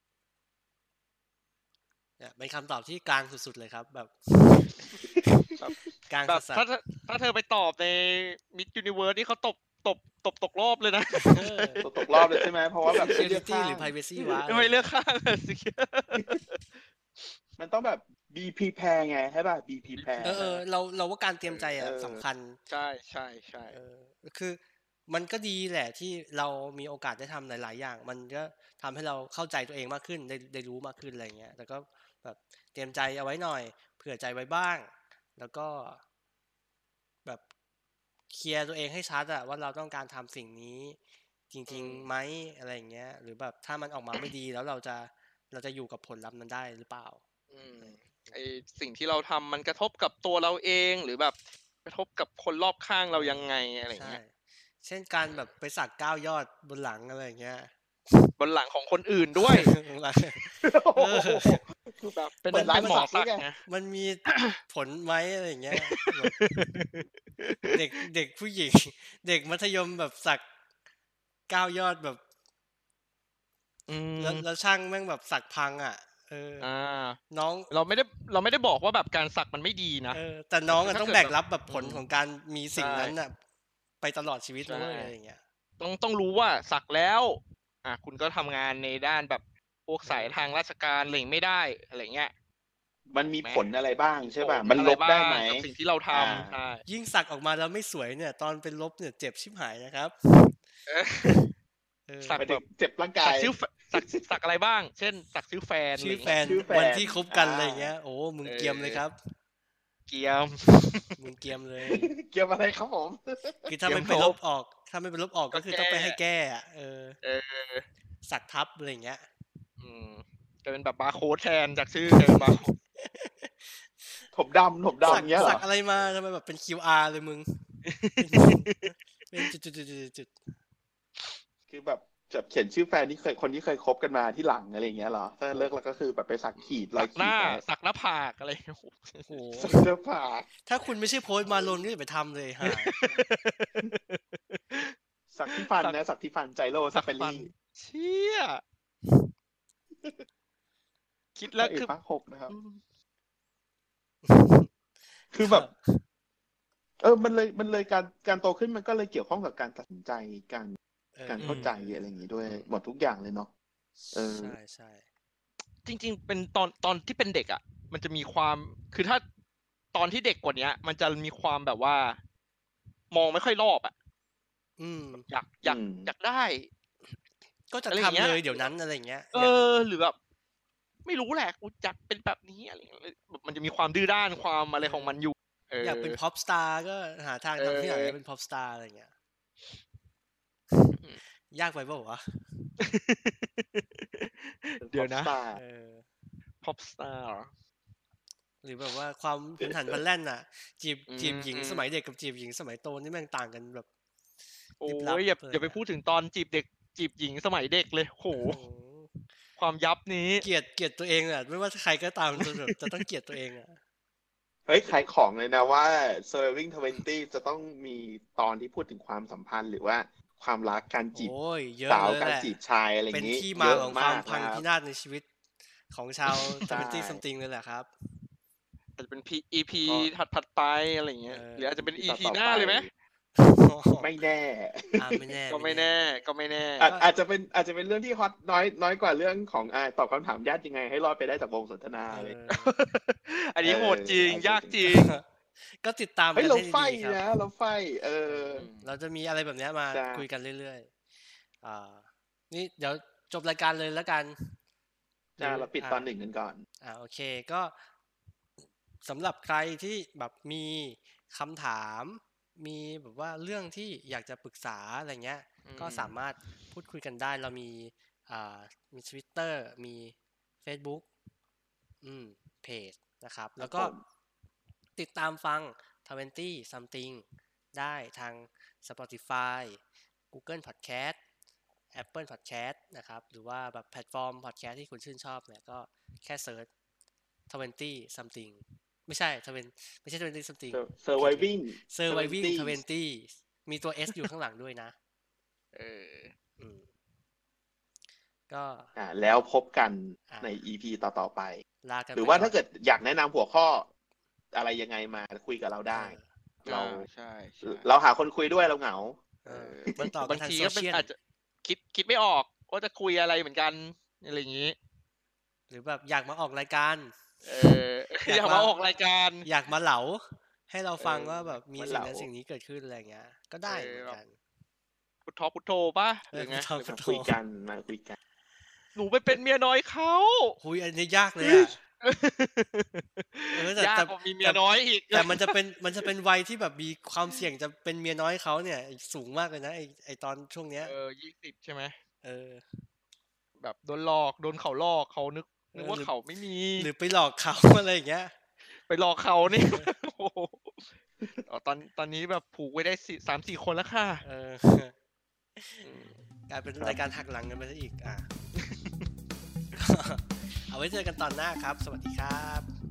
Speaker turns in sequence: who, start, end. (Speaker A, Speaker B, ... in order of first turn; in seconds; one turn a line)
Speaker A: 2.2-5.4
Speaker B: 5.6-13.2
Speaker A: 6.1-6.7
Speaker A: 11.2-11.8
Speaker C: 11.8-13.9
Speaker A: 12.9-14.9
Speaker B: 14.4-17.3
Speaker C: 17.6-20.6
Speaker B: 19.9-20.4
Speaker A: 20.2-22.6
Speaker C: 21.7-22.2
Speaker B: 22.7-23.8
Speaker A: 23.7-36.0
Speaker A: 38.3-41.0
Speaker A: 41.5-47.2
Speaker B: 41.7-42.1
Speaker B: 47.5-54.2
Speaker A: 47.8-48.3
Speaker A: 53.1-58.3
Speaker B: 55.2-55.5
Speaker B: 58.4-59.7
Speaker A: 59.4-61.6
Speaker C: 60.6-61.6
Speaker B: 62.0-63.6
Speaker A: 62.4-63.1
Speaker C: 62.5-63.5
Speaker A: 63.6-66.4
Speaker B: 64.3-64.6
Speaker B: 65.7-68.0
Speaker A: 67.7-70.4
Speaker A: 71.5-72.2
Speaker B: 73.9-74.4
Speaker A: 74.2-76.7
Speaker B: 76.6-82.0
Speaker A: 77.3-77.7
Speaker A: 80.1-83.3
Speaker B: 82.8-83.2
Speaker A: 84.0-85.4
Speaker B: 84.7-85.1
Speaker B: 85.8-92.3
Speaker A: 90.0-90.4
Speaker C: 93.1-96.5
Speaker B: 93.4-96.8
Speaker A: 96.8-100.6
Speaker B: 100.9-101.5
Speaker A: 102.1-102.4
Speaker B: 102.2-102.6
Speaker C: 102.4-104.2
Speaker B: 103.2-106.4
Speaker A: 106.0-109.2
Speaker C: 106.4-107.9
Speaker B: 108.4-109.0
Speaker B: 110.1-111.2
Speaker A: 111.2-112.1
Speaker C: 111.9-113.8
Speaker A: 113.7-117.2
Speaker B: 113.8-114.4
Speaker B: 115.5-116.2
Speaker B: 117.2-117.9
Speaker A: 118.2-119.2
Speaker B: 119.8-122.7
Speaker A: 122.1-124.3
Speaker C: 124.3-125.6
Speaker A: 125.0-127.6
Speaker B: 125.1-125.6
Speaker B: 127.8-129.5
Speaker A: 128.2-130.3
Speaker C: 131.7-137.6
Speaker B: 136.6-139.9
Speaker A: 139.3-139.7
Speaker C: 139.6-140.5
Speaker A: 140.6-142.9
Speaker C: 141.4-141.8
Speaker B: 142.6-144.9
Speaker C: 145.3-147.5
Speaker B: 145.5-146.0
Speaker B: 146.9-148.6
Speaker B: 151.3-151.9
Speaker C: 151.5-152.5
Speaker B: 152.5-152.8
Speaker A: 154.2-156.0
Speaker C: 155.3-155.7
Speaker C: 157.0-160.7
Speaker A: 161.1-162.7
Speaker C: 161.2-163.5
Speaker B: 161.4-161.7
Speaker A: 164.0-165.0
Speaker C: 164.1-164.5
Speaker B: 165.8-169.2
Speaker B: 169.9-172.2
Speaker B: 173.1-173.9
Speaker A: 174.8-175.2
Speaker B: 175.2-176.7
Speaker C: 175.6-176.1
Speaker A: 177.7-179.6
Speaker B: 177.9-178.7
Speaker B: 179.3-180.2
Speaker B: 181.0-186.2
Speaker A: 184.8-185.2
Speaker A: 185.8-189.1
Speaker B: 187.6-188.2
Speaker B: 190.9-191.2
Speaker A: 191.5-192.7
Speaker B: 192.8-195.3
Speaker C: 194.8-195.6
Speaker A: 195.5-196.0
Speaker B: 196.6-197.5
Speaker A: 198.6-203.8
Speaker B: 201.1-201.8
Speaker B: 204.8-208.6
Speaker A: 204.8-205.8
Speaker A: 208.3-209.3
Speaker B: 209.6-210.5
Speaker A: 210.4-213.8
Speaker B: 212.3-213.0
Speaker C: 214.7-221.3
Speaker A: 221.1-222.6
Speaker C: 221.9-224.6
Speaker A: 223.1-225.3
Speaker A: 225.9-227.9
Speaker B: 226.4-226.7
Speaker C: 226.7-227.2
Speaker B: 228.9-232.9
Speaker A: 231.3-231.9
Speaker C: 231.9-232.9
Speaker A: 233.3-234.1
Speaker C: 234.0-235.2
Speaker A: 235.0-236.0
Speaker B: 235.5-236.9
Speaker A: 236.8-237.1
Speaker C: 236.8-242.4
Speaker A: 242.1-242.7
Speaker B: 242.5-245.2
Speaker C: 243.6-244.8
Speaker A: 244.8-247.2
Speaker C: 246.3-248.7
Speaker A: 248.2-250.9
Speaker B: 248.5-248.9
Speaker C: 249.9-250.2
Speaker A: 251.6-254.5
Speaker C: 255.4-256.6
Speaker A: 255.4-256.0
Speaker A: 256.8-257.8
Speaker A: 259.0-271.1
Speaker B: 265.6-266.2
Speaker A: 272.0-273.9
Speaker C: 273.6-274.0
Speaker A: 274.9-281.2
Speaker A: 281.9-286.7
Speaker A: 287.5-294.9
Speaker C: 290.7-292.8
Speaker B: 295.7-296.3
Speaker A: 296.6-296.9
Speaker A: 298.5-298.9
Speaker C: 298.9-301.6
Speaker A: 300.3-300.6
Speaker A: 301.8-302.6
Speaker C: 302.1-303.9
Speaker C: 304.5-307.1
Speaker A: 305.9-306.2
Speaker B: 306.6-307.9
Speaker C: 307.6-309.2
Speaker A: 309.4-311.1
Speaker B: 309.4-314.8
Speaker A: 315.7-318.7
Speaker B: 317.4-319.5
Speaker A: 319.4-324.3
Speaker B: 321.1-321.6
Speaker C: 321.8-322.3
Speaker B: 323.6-324.2
Speaker B: 325.2-326.7
Speaker A: 326.3-327.3
Speaker C: 326.8-328.2
Speaker B: 328.9-330.6
Speaker A: 330.6-331.8
Speaker B: 331.4-336.1
Speaker A: 333.5-340.9
Speaker B: 340.8-341.9
Speaker A: 342.2-342.6
Speaker B: 343.6-346.9
Speaker A: 345.7-346.1
Speaker A: 346.8-348.3
Speaker B: 348.7-354.2
Speaker A: 349.5-349.9
Speaker A: 354.2-354.9
Speaker A: 355.6-355.9
Speaker B: 355.8-356.2
Speaker A: 356.5-358.3
Speaker B: 358.6-359.0
Speaker A: 359.7-362.7